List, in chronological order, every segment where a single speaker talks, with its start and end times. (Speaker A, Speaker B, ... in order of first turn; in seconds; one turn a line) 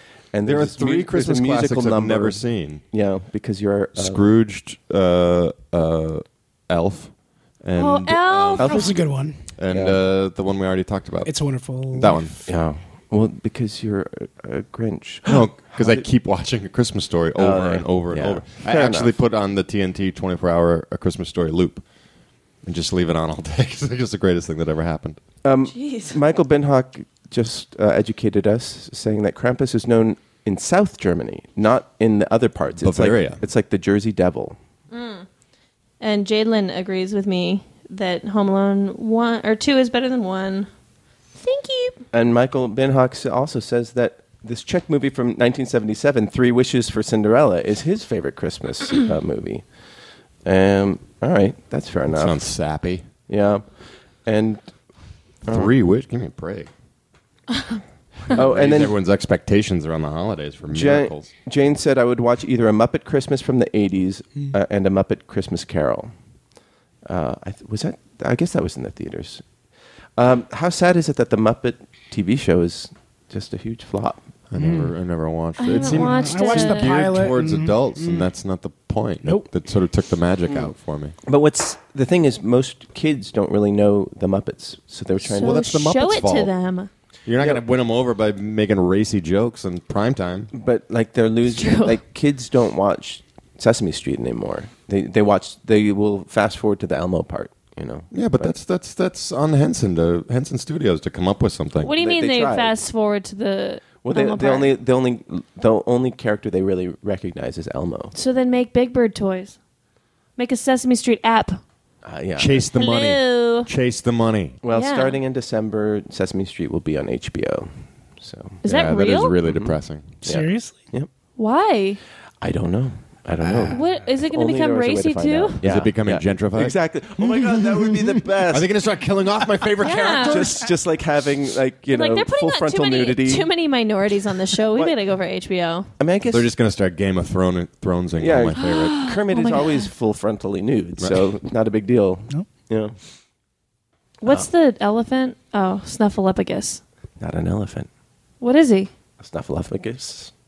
Speaker A: 0.3-4.2
Speaker B: 0.4-2.8
Speaker B: 4.0-8.9
Speaker C: 7.8-9.0
Speaker D: 8.6-9.4
Speaker B: 9.6-12.4
Speaker A: 9.7-10.0
Speaker D: 11.2-12.2
Speaker A: 12.4-16.0
Speaker B: 15.3-21.8
Speaker A: 17.4-19.1
Speaker B: 22.6-25.2
Speaker A: 25.4-34.5
Speaker C: 25.7-26.2
Speaker B: 32.8-33.4
Speaker C: 34.9-35.2
Speaker C: 36.0-40.7
Speaker C: 41.4-42.0
Speaker A: 42.1-49.6
Speaker A: 50.4-52.4
Speaker B: 52.1-53.0
Speaker A: 53.3-54.7
Speaker A: 55.5-55.7
Speaker B: 55.5-56.7
Speaker A: 58.3-58.9
Speaker B: 58.3-61.3
Speaker A: 60.7-66.1
Speaker A: 67.0-69.4
Speaker A: 70.2-74.2
Speaker B: 74.5-81.2
Speaker D: 74.6-74.9
Speaker C: 75.6-76.9
Speaker D: 75.7-78.3
Speaker A: 81.2-85.6
Speaker C: 85.3-86.9
Speaker B: 85.4-86.5
Speaker B: 87.2-90.5
Speaker A: 90.5-98.5
Speaker C: 91.5-92.0
Speaker B: 98.1-101.9
Speaker C: 101.8-104.7
Speaker A: 102.0-102.7
Speaker A: 104.0-108.1
Speaker C: 108.1-109.6
Speaker C: 110.4-111.6
Speaker A: 112.0-112.6
Speaker B: 112.4-114.6
Speaker C: 112.7-113.7
Speaker A: 114.6-121.1
Speaker C: 114.7-115.2
Speaker C: 118.6-119.3
Speaker B: 118.6-120.1
Speaker D: 120.2-120.8
Speaker C: 121.4-122.0
Speaker A: 122.4-128.7
Speaker B: 123.4-123.8
Speaker C: 123.7-125.6
Speaker B: 125.6-126.8
Speaker B: 128.5-130.6
Speaker C: 129.8-130.6
Speaker A: 130.2-133.5
Speaker C: 131.9-135.9
Speaker A: 136.0-136.5
Speaker B: 136.3-139.0
Speaker A: 138.2-142.9
Speaker C: 138.6-139.9
Speaker C: 144.2-146.8
Speaker A: 147.2-147.9
Speaker C: 148.4-148.9
Speaker A: 149.2-150.3